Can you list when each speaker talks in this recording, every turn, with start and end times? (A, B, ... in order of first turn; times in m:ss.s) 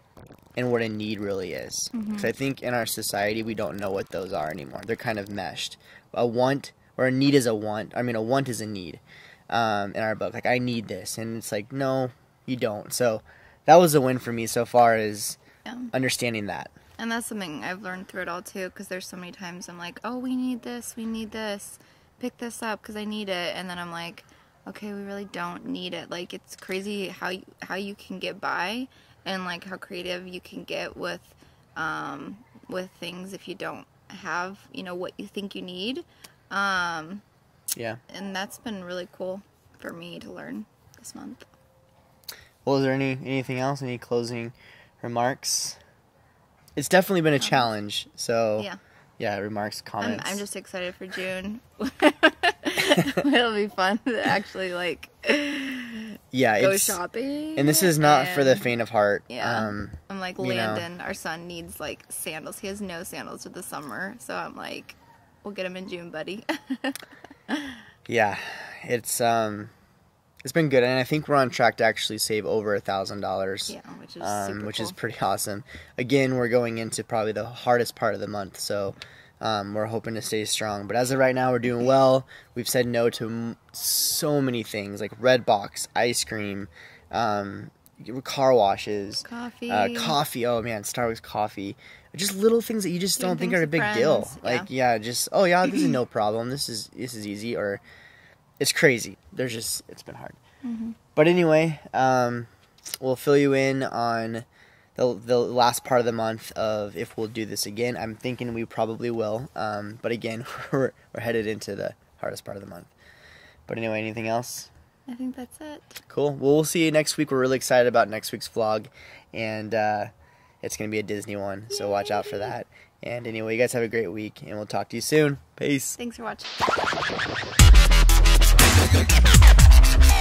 0:00.6-0:15.4 A
0:01.9-0:02.3 B
0:15.6-0:15.9 B
0:15.9-0:16.7 A
0:17.0-0:37.2 B
0:37.7-0:38.0 A
0:38.1-0:41.5 B
0:42.6-0:45.8 A
0:46.8-0:50.4 A
0:47.4-0:47.7 B
0:50.0-0:58.7 B
0:56.3-0:57.0 A
0:57.6-1:00.9 A
0:59.3-1:07.8 B
1:08.1-1:09.7 A
1:10.4-1:37.8 A
1:13.7-1:15.0 B
1:29.2-1:30.2 B
1:33.2-1:34.7 B
1:38.6-1:40.4 A
1:40.6-1:41.0 B
1:41.1-1:42.5 A
1:43.0-1:44.4 A
1:45.0-1:52.9 A
1:53.7-1:54.7 A
1:55.1-1:56.0 B
1:56.1-2:00.1 A
2:00.6-2:06.0 A
2:06.0-2:06.5 B